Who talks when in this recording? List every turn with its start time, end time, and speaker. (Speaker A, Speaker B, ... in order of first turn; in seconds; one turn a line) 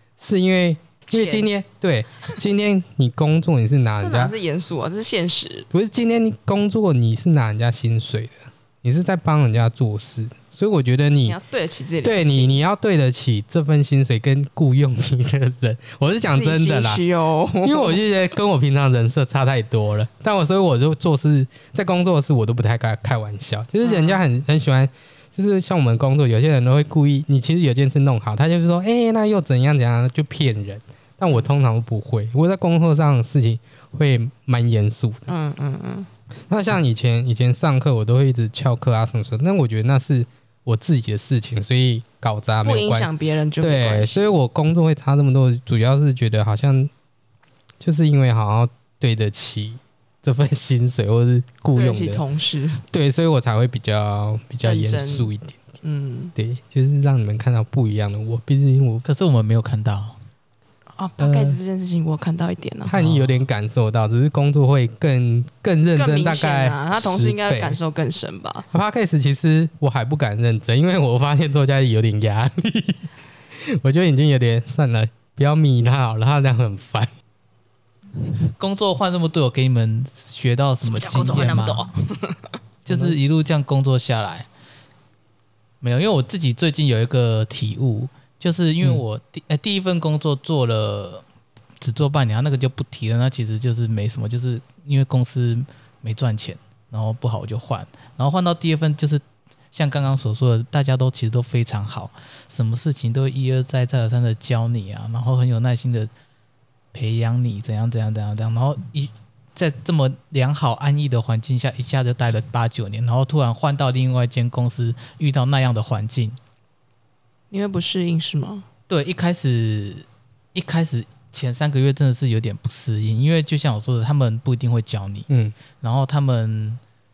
Speaker A: 0.2-4.3
Speaker B: 1.1-1.5
Speaker B: 4.0-5.7
Speaker A: 5.7-11.4
Speaker B: 11.2-12.6
Speaker A: 12.0-17.0
Speaker B: 16.3-18.0
Speaker A: 17.6-35.2
Speaker B: 23.8-24.2
Speaker B: 35.3-36.1
Speaker A: 36.5-46.9
Speaker B: 42.6-44.3
Speaker A: 47.8-52.2
Speaker B: 51.7-52.8
Speaker A: 52.9-55.6
Speaker B: 54.6-55.3
Speaker B: 55.8-56.3
Speaker A: 56.4-59.0
Speaker C: 59.0-60.1
Speaker B: 61.0-63.0
Speaker A: 61.2-61.5
Speaker A: 62.9-67.8
Speaker C: 62.9-63.4
Speaker B: 65.8-68.7
Speaker A: 68.7-73.0
Speaker A: 73.6-77.1
Speaker C: 78.6-81.8
Speaker B: 80.8-82.5
Speaker C: 82.8-84.5
Speaker A: 82.9-83.2
Speaker C: 85.8-91.2
Speaker C: 91.8-106.1
Speaker C: 106.9-116.4
Speaker B: 117.5-118.6
Speaker C: 118.9-125.3
Speaker A: 125.3-125.5
Speaker C: 125.8-126.8